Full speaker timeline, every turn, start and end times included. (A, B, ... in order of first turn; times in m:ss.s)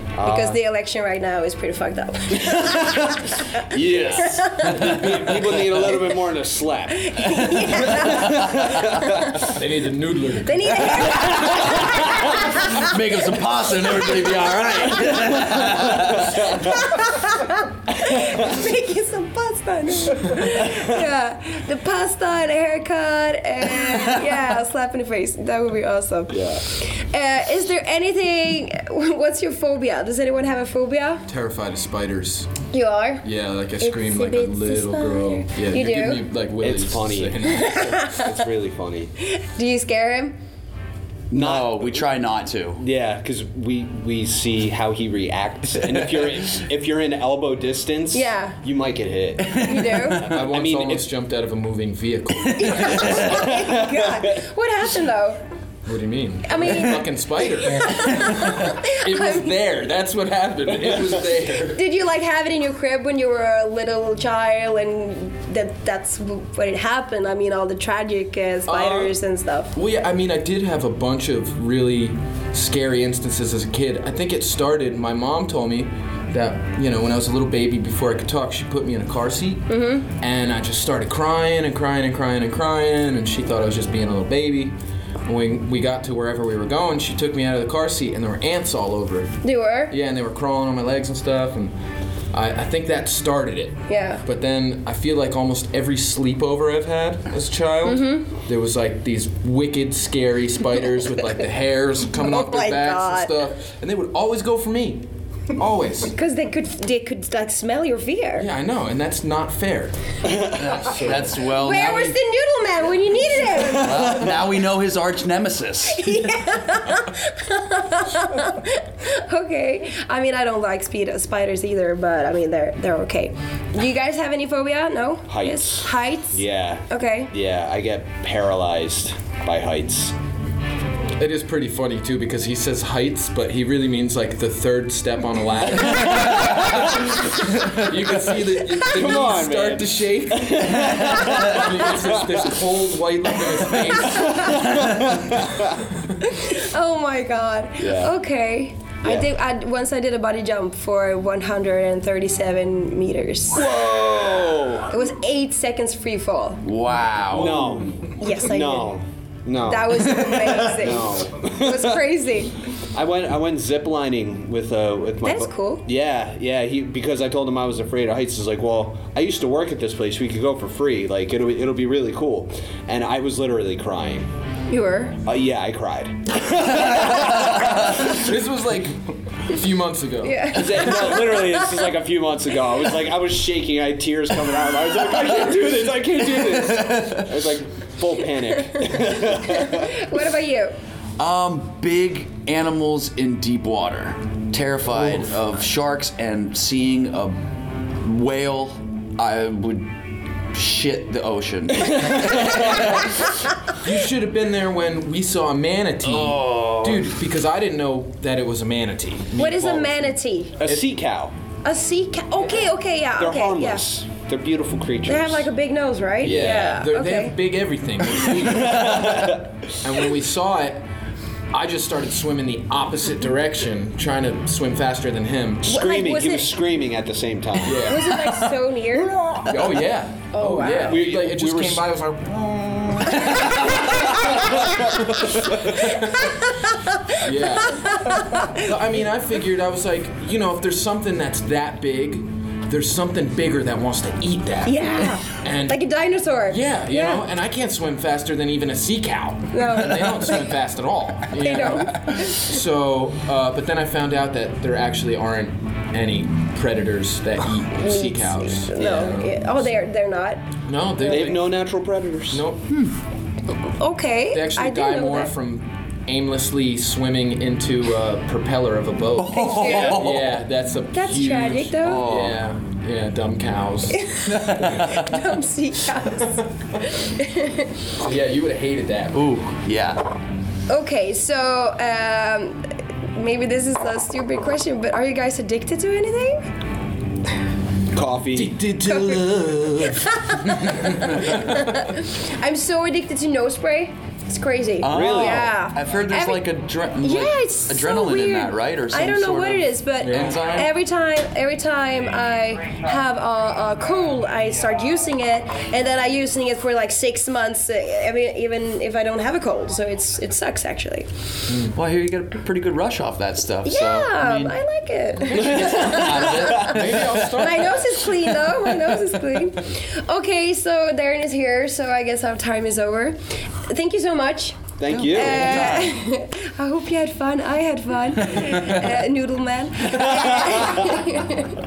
0:00.1-0:00.6 A
0:00.2-0:06.4 B
0:03.7-0:07.2 A
0:03.7-0:05.3 C
0:06.9-0:09.5 B
0:07.6-0:08.2 C
0:07.9-0:09.0 A
0:09.5-0:10.7 D
0:10.4-0:12.9 B
0:11.0-0:16.5 C
0:16.5-0:31.2 B
0:26.3-0:26.6 A
0:31.3-0:32.5 D
0:32.7-0:33.2 B
0:33.2-0:37.9 D
0:33.8-0:36.2 B
0:36.6-0:39.1 A
0:37.4-0:38.3 B
0:39.2-0:40.4 B
0:41.3-0:42.8 C
0:41.3-0:42.1 A
0:42.8-0:51.0 A
0:48.1-0:48.6 B
0:49.4-0:50.2 C
0:49.5-0:50.2 B
0:50.3-0:53.0 D
0:52.4-0:55.4 B
0:52.6-0:53.4 C
0:55.8-1:01.8 D
0:56.4-0:59.6 B
1:01.7-1:09.7 B
1:08.7-1:09.1 D
1:09.7-1:29.3 D
1:19.7-1:20.1 B
1:29.4-1:29.9 B
1:29.9-1:31.7 D
1:32.3-1:46.1 D
1:33.9-1:34.2 B
1:37.8-1:38.2 B
1:42.1-1:43.3 B
1:46.1-1:48.5 B
1:48.4-1:50.0 D
1:50.4-1:52.2 C
1:51.5-1:54.2 B
1:53.7-1:56.2 C
1:55.9-2:07.3 B
2:05.3-2:10.2 A
2:11.2-2:24.6 D
2:18.8-2:22.5 A
2:23.7-2:25.5 A
2:24.3-2:24.7 B
2:26.2-2:33.6 B
2:27.8-2:28.1 A
2:33.5-2:34.9 A
2:34.9-2:36.6 B
2:36.6-2:37.9 C
2:37.3-2:42.0 A
2:38.2-2:39.0 B
2:39.6-2:42.5 B
2:42.9-2:54.3 A
2:45.2-2:45.8 B
2:54.7-2:55.2 B
2:55.2-2:58.2 A
2:58.1-3:01.0 D
3:00.2-3:01.9 B
3:00.5-3:10.0 A
3:06.4-3:07.2 C
3:09.2-3:10.7 B
3:11.2-3:19.9 C
3:20.5-3:23.1 C
3:22.8-3:30.9 D
3:26.0-3:27.1 C
3:29.4-3:30.6 B
3:30.6-3:31.3 A
3:31.6-3:33.8 B
3:33.2-3:35.5 A
3:35.0-3:37.4 B
3:36.2-3:36.8 A
3:36.2-3:40.8 D
3:38.5-3:39.4 A
3:38.6-3:39.2 C
3:41.5-3:45.6 D
3:45.6-3:47.8 A
3:45.6-3:46.6 B
3:47.6-3:48.1 D
3:47.8-3:49.4 B
3:48.0-3:48.5 C
3:49.3-3:49.7 A
3:49.4-3:53.4 D
3:50.3-3:51.1 B
3:50.8-3:51.9 A
3:53.1-3:54.3 C
3:53.3-3:58.6 B
3:55.7-3:56.2 D
3:57.2-4:05.8 D
4:04.6-4:07.2 B
4:06.5-4:19.7 D
4:09.5-4:10.4 B
4:11.4-4:12.5 B
4:17.7-4:20.4 B
4:20.7-4:21.8 D
4:21.0-4:22.4 A
4:21.0-4:21.3 B
4:22.3-4:22.6 D
4:22.7-4:23.0 C
4:23.5-4:25.3 B
4:24.3-4:34.1 D
4:29.2-4:30.4 C
4:29.3-4:30.0 B
4:30.9-4:32.1 B
4:31.8-4:32.4 C
4:33.9-4:37.7 B
4:34.2-4:35.2 C
4:38.0-4:39.2 D
4:39.1-4:40.0 C
4:40.7-4:46.4 B
4:47.9-4:48.6 A
4:48.3-4:50.2 D
4:48.8-4:56.5 B
4:50.7-4:51.7 D
4:54.8-5:00.7 C
4:54.9-4:55.5 A
4:57.0-5:11.1 B
5:00.0-5:00.5 D
5:11.5-5:11.7 D
5:11.7-5:14.6 C
5:13.6-5:31.6 B
5:15.2-5:18.2 D
5:15.3-5:17.1 C
5:24.8-5:25.7 A
5:24.9-5:25.9 C
5:28.3-5:28.9 C
5:30.1-5:30.8 A